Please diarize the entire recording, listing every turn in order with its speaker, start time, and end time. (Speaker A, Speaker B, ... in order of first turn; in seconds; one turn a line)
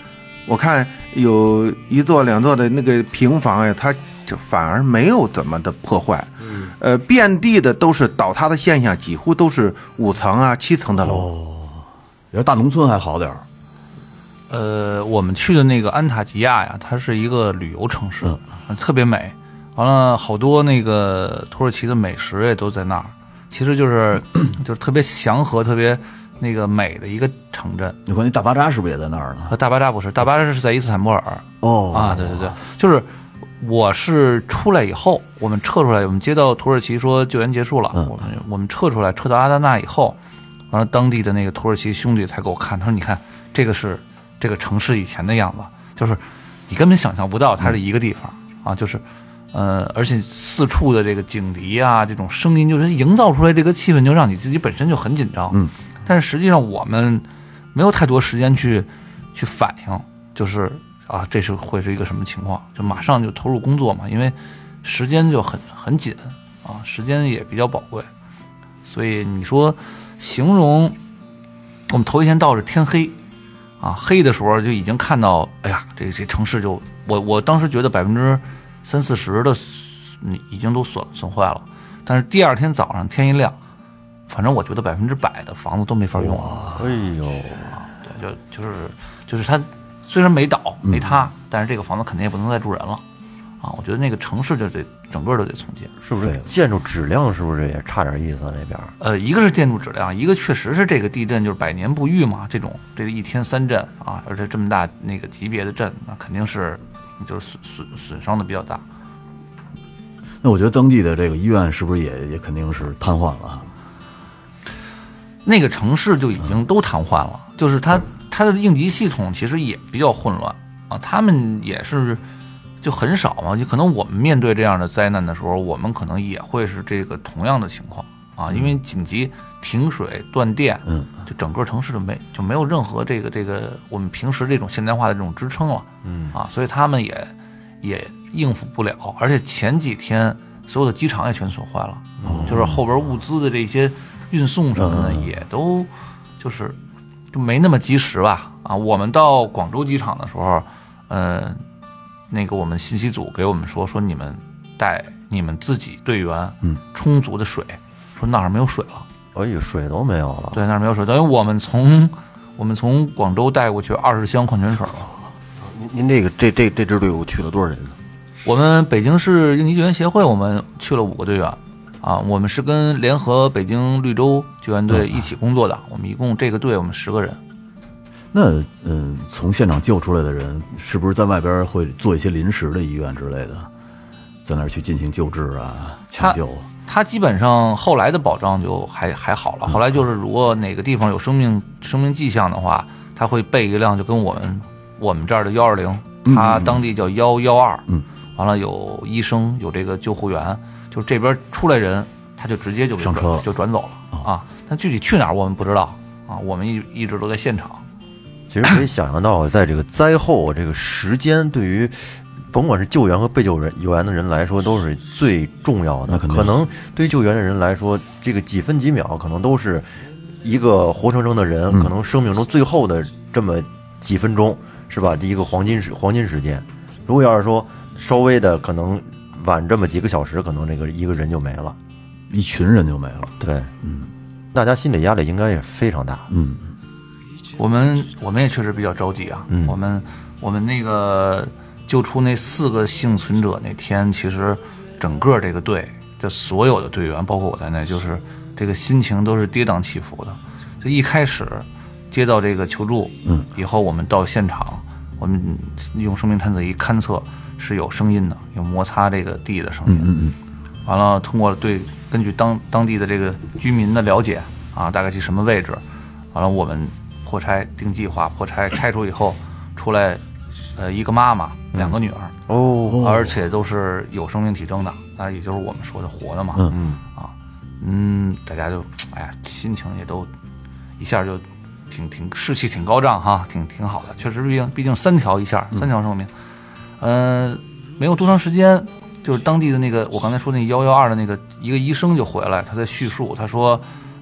Speaker A: 0.5-11.3
Speaker B: 10.9-13.4
Speaker C: 14.5-28.0
Speaker B: 28.1-29.6
Speaker C: 29.5-33.1
Speaker B: 31.6-32.5
Speaker C: 33.6-40.2
Speaker B: 37.9-38.2
Speaker C: 40.7-68.1
Speaker C: 68.8-71.0
Speaker C: 71.9-73.2
Speaker C: 73.8-83.6
Speaker C: 84.3-86.6
Speaker B: 86.2-86.8
Speaker D: 86.7-87.8
Speaker C: 87.9-93.0
Speaker C: 93.6-95.9
Speaker D: 96.0-98.9
Speaker C: 99.0-108.8
Speaker B: 110.4-113.7
Speaker C: 115.4-122.2
Speaker C: 122.8-146.8
Speaker B: 130.9-131.1
Speaker D: 136.0-136.3
Speaker D: 142.2-142.8
Speaker B: 142.2-142.7
Speaker B: 144.8-145.3
Speaker C: 147.3-151.6
Speaker C: 152.3-159.1
Speaker D: 159.3-160.6
Speaker C: 160.5-165.1
Speaker E: 165.6-167.9
Speaker C: 168.4-177.4
Speaker B: 174.9-175.2
Speaker B: 178.3-183.7
Speaker B: 184.4-186.7
Speaker C: 186.2-207.8
Speaker B: 196.2-196.8
Speaker B: 203.0-203.4
Speaker D: 208.5-231.8
Speaker B: 216.1-216.6
Speaker B: 232.3-234.1
Speaker D: 233.4-233.7
Speaker D: 234.5-236.3
Speaker B: 236.3-236.7
Speaker C: 237.6-260.1
Speaker D: 239.5-239.8
Speaker B: 259.9-260.4
Speaker C: 260.9-265.8
Speaker C: 266.3-270.2
Speaker C: 270.8-272.3
Speaker D: 272.5-273.0
Speaker B: 272.9-273.3
Speaker C: 273.0-280.3
Speaker D: 276.7-277.0
Speaker C: 281.0-286.3
Speaker C: 287.0-293.9